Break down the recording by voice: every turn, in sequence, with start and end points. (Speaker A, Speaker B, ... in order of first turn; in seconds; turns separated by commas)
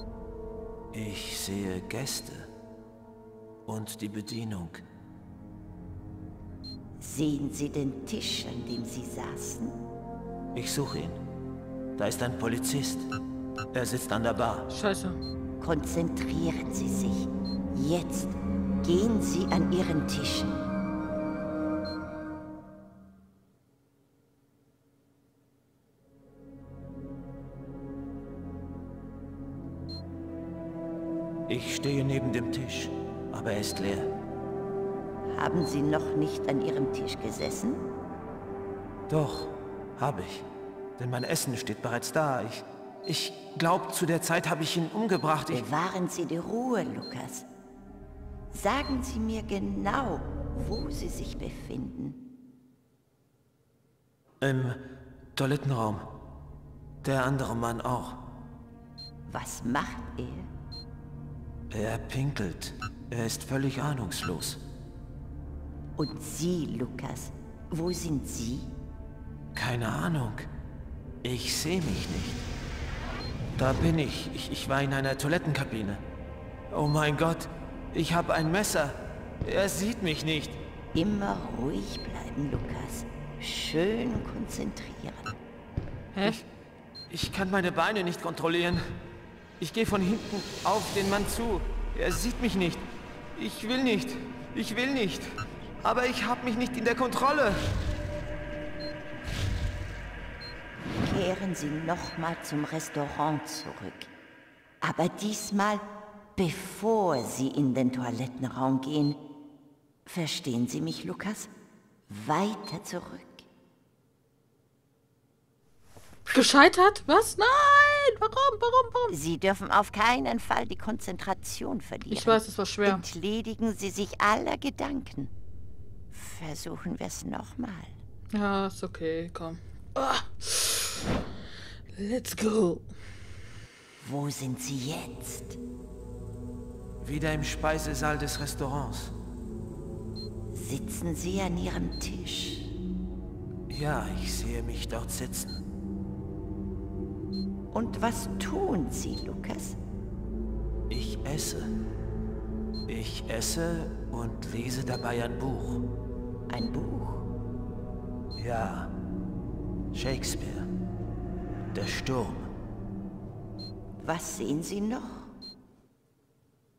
Speaker A: 0.9-2.5, Speaker A: 3.7-4.8, Speaker B: 7.0-9.8, Speaker A: 10.5-11.2, Speaker A: 12.0-13.1, Speaker A: 13.7-14.7, Speaker C: 14.7-15.2, Speaker B: 15.6-20.7, Speaker A: 31.5-34.1, Speaker B: 35.3-37.8, Speaker A: 39.1-40.5, Speaker A: 41.0-45.7, Speaker B: 45.5-47.5, Speaker B: 48.5-52.2, Speaker A: 54.4-54.8, Speaker A: 55.4-56.1, Speaker A: 57.0-58.3, Speaker B: 59.3-60.5, Speaker A: 61.7-64.6, Speaker B: 66.0-68.7, Speaker A: 69.5-70.5, Speaker A: 71.2-72.4, Speaker A: 73.6-76.0, Speaker A: 76.7-80.6, Speaker B: 80.9-85.4, Speaker C: 86.1-86.4, Speaker A: 87.1-88.8, Speaker A: 89.6-95.3, Speaker A: 95.8-97.7, Speaker B: 101.0-104.1, Speaker B: 104.8-105.8, Speaker B: 106.4-109.2, Speaker B: 110.1-111.5, Speaker B: 112.1-113.5, Speaker C: 116.3-119.2, Speaker B: 119.1-125.3, Speaker C: 122.1-123.0, Speaker B: 126.1-128.0, Speaker C: 128.3-131.1, Speaker C: 132.0-132.9, Speaker B: 134.0-135.6, Speaker A: 137.0-139.1, Speaker B: 140.5-142.7, Speaker A: 143.7-145.6, Speaker B: 147.7-149.8, Speaker A: 150.9-151.7, Speaker A: 152.9-155.9, Speaker B: 156.5-157.3, Speaker A: 158.4-158.9, Speaker A: 159.9-160.7, Speaker A: 161.7-162.5, Speaker B: 164.0-165.3